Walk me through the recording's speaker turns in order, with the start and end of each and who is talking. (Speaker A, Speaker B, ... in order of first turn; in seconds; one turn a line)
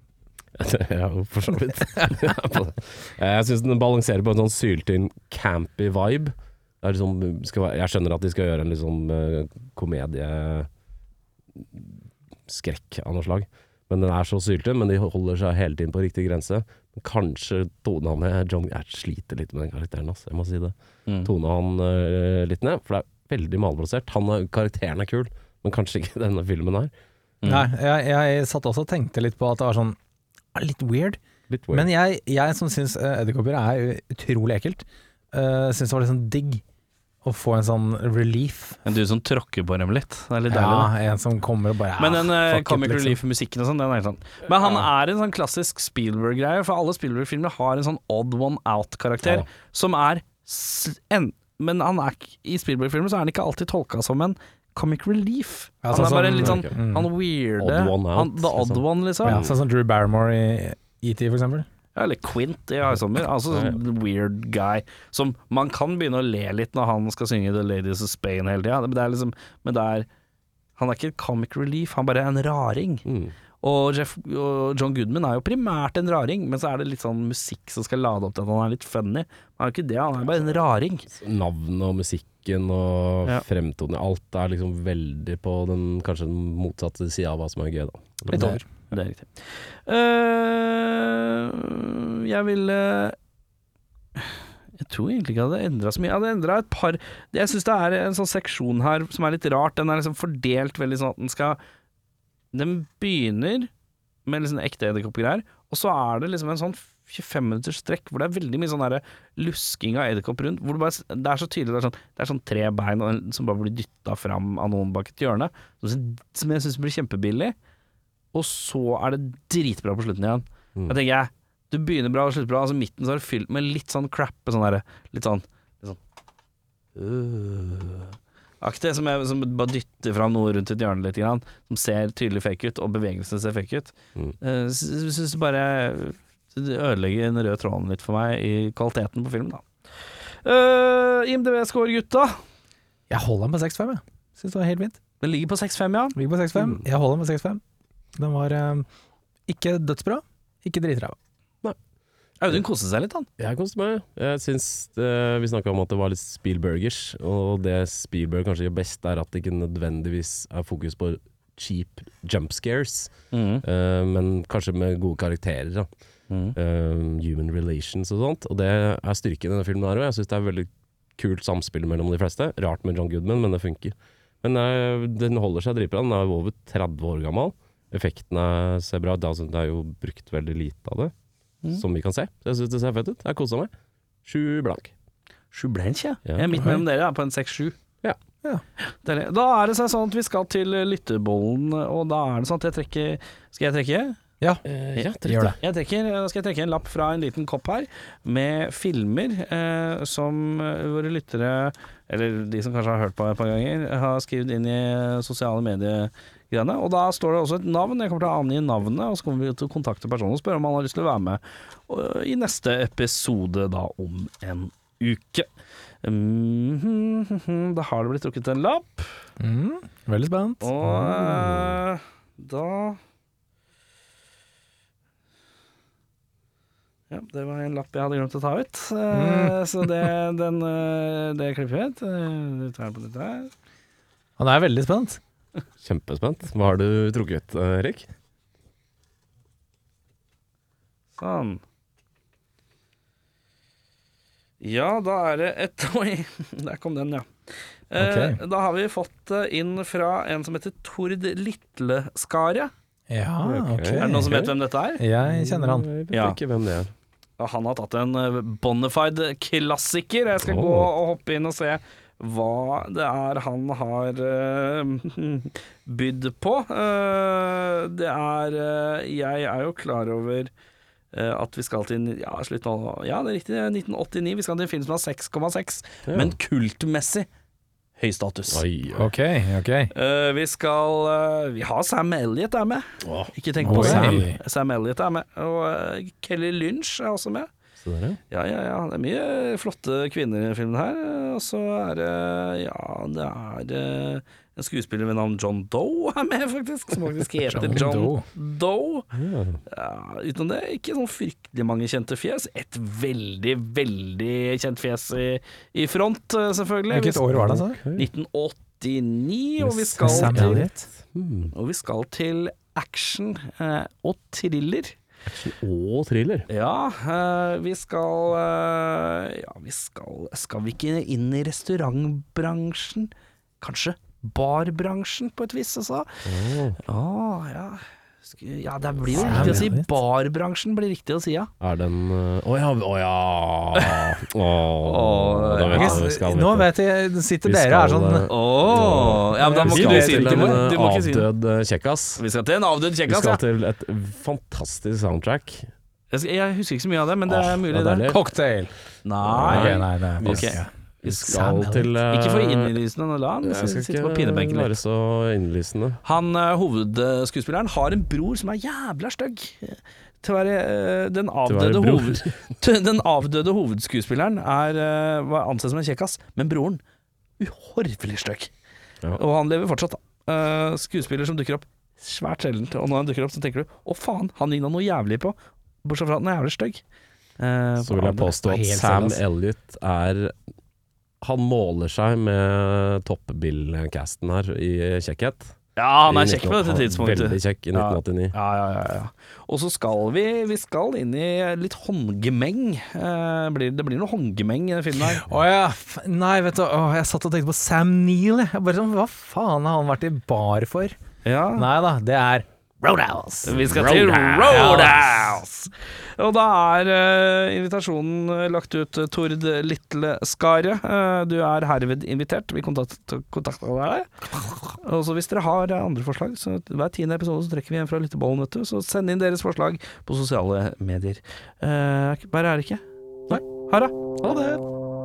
Speaker A: 0.6-10.7
Speaker A: 11.6-11.9
Speaker A: 12.5-20.7
Speaker A: 21.2-26.9
Speaker B: 27.4-27.7
Speaker C: 27.4-30.0
Speaker C: 30.5-31.2
Speaker A: 31.5-31.9
Speaker C: 31.7-36.6
Speaker C: 37.2-38.8
Speaker B: 38.8-40.9
Speaker C: 40.5-43.2
Speaker B: 42.0-59.4
Speaker C: 55.8-57.1
Speaker A: 56.1-56.7
Speaker A: 57.6-59.5
Speaker C: 59.2-61.7
Speaker B: 62.0-70.1
Speaker B: 70.8-73.0
Speaker A: 73.0-73.3
Speaker B: 73.6-81.1
Speaker A: 81.1-88.5
Speaker C: 88.3-88.6
Speaker B: 88.3-93.2
Speaker B: 94.2-101.6
Speaker B: 102.5-103.7
Speaker B: 104.2-117.5
Speaker B: 118.3-126.0
Speaker B: 127.0-139.7
Speaker B: 140.4-142.4
Speaker C: 143.1-145.0
Speaker B: 145.2-146.2
Speaker C: 146.2-147.6
Speaker C: 148.2-148.8
Speaker C: 149.5-151.2
Speaker B: 152.4-153.3
Speaker A: 153.4-163.1
Speaker B: 163.3-163.6
Speaker A: 163.6-165.9
Speaker B: 166.3-166.6
Speaker A: 166.6-181.1
Speaker A: 181.7-183.7
Speaker A: 184.2-184.9
Speaker B: 185.5-187.8
Speaker A: 186.3-186.6
Speaker B: 188.9-194.2
Speaker A: 194.7-195.6
Speaker C: 195.2-195.6
Speaker B: 195.6-215.5
Speaker B: 216.0-219.1
Speaker C: 219.4-220.7
Speaker B: 220.6-223.0
Speaker A: 220.8-221.8
Speaker B: 227.1-233.5
Speaker C: 229.1-229.6
Speaker C: 234.4-235.2
Speaker A: 235.8-238.1
Speaker B: 241.2-241.6
Speaker B: 244.6-247.3
Speaker B: 247.9-252.7
Speaker C: 247.9-248.4
Speaker C: 253.1-254.3
Speaker A: 253.4-254.6
Speaker B: 254.0-255.0
Speaker C: 255.0-255.9
Speaker A: 255.2-256.9
Speaker B: 256.1-256.4
Speaker B: 257.4-270.5
Speaker A: 260.4-260.9
Speaker B: 271.1-277.3
Speaker A: 276.1-276.3
Speaker B: 278.0-278.6
Speaker A: 278.5-279.1
Speaker C: 278.9-279.9
Speaker B: 279.9-287.5
Speaker A: 283.0-284.2
Speaker C: 283.6-284.4
Speaker A: 287.8-288.2
Speaker B: 288.3-299.1
Speaker C: 297.5-298.2
Speaker A: 299.1-299.6
Speaker B: 299.7-307.3
Speaker C: 306.9-307.8
Speaker A: 307.3-308.1
Speaker B: 307.9-310.6
Speaker A: 309.6-311.5
Speaker C: 310.0-310.8
Speaker B: 311.5-314.9
Speaker A: 315.3-316.5
Speaker B: 316.5-326.2
Speaker A: 326.2-326.8
Speaker B: 326.8-331.5
Speaker A: 329.1-329.7
Speaker C: 329.1-329.9
Speaker A: 331.6-336.7
Speaker B: 333.7-334.1
Speaker B: 334.8-336.0
Speaker C: 335.7-338.3
Speaker A: 337.4-342.2
Speaker B: 338.3-341.3
Speaker C: 339.3-340.6
Speaker B: 342.2-343.4
Speaker A: 343.1-345.7
Speaker B: 346.1-348.1
Speaker A: 347.3-348.2
Speaker C: 348.0-348.7
Speaker B: 349.0-354.8
Speaker A: 349.2-352.7
Speaker C: 349.5-351.9
Speaker A: 353.4-356.0
Speaker B: 356.0-366.8
Speaker A: 361.5-362.4
Speaker B: 367.4-368.5
Speaker B: 369.1-376.8
Speaker B: 377.4-378.3
Speaker A: 377.8-380.3
Speaker C: 378.4-379.2
Speaker A: 381.2-385.5
Speaker B: 385.8-395.2
Speaker A: 386.1-388.3
Speaker C: 395.2-400.9
Speaker B: 401.2-401.7
Speaker C: 401.5-403.6
Speaker B: 403.4-423.9
Speaker A: 403.5-404.9
Speaker C: 404.5-404.9